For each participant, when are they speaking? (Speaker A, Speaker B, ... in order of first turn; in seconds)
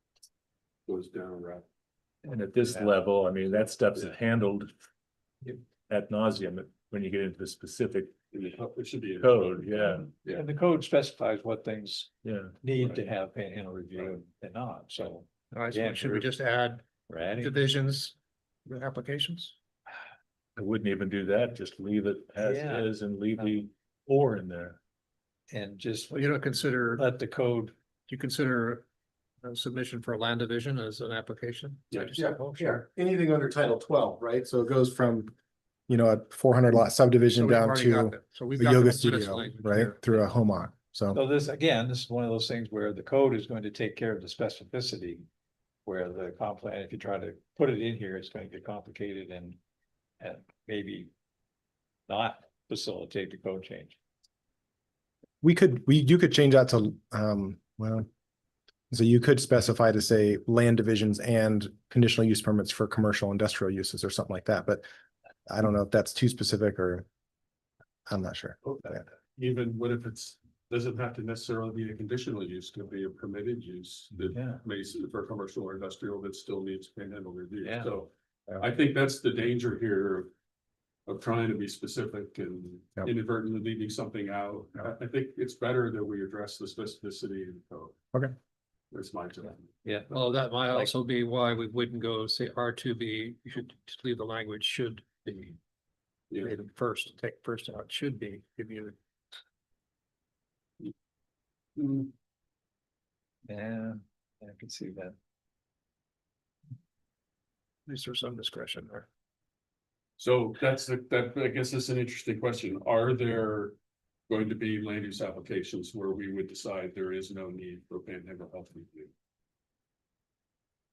Speaker A: 0.9-1.6, 8.3-10.4, 13.9-14.2, 68.7-80.3, 81.1-87.9, 88.9-89.8, 96.3-96.5, 101.8-102.1, 110.2-113.8, 114.3-119.1
Speaker B: 2.2-4.7, 5.9-8.1, 9.2-10.1, 12.2-12.5, 20.6-24.8
Speaker C: 10.3-12.1, 12.6-16.3, 17.1-17.6, 22.4-22.9, 25.5-26.2, 26.9-27.7, 41.1-45.2, 45.8-49.6, 50.2-51.1, 52.1-54.0, 74.3-74.6, 77.6-77.9, 89.8-90.1, 103.5-105.2
Speaker D: 15.5-16.8, 17.4-18.1, 18.6-19.5, 26.1-27.0, 28.1-28.8, 29.4-32.8, 37.3-40.0, 90.1-95.6, 96.4-99.0, 107.9-109.0
Speaker E: 32.1-35.3, 35.9-41.2, 55.4-58.1, 58.9-64.8, 65.5-67.0, 68.1-69.0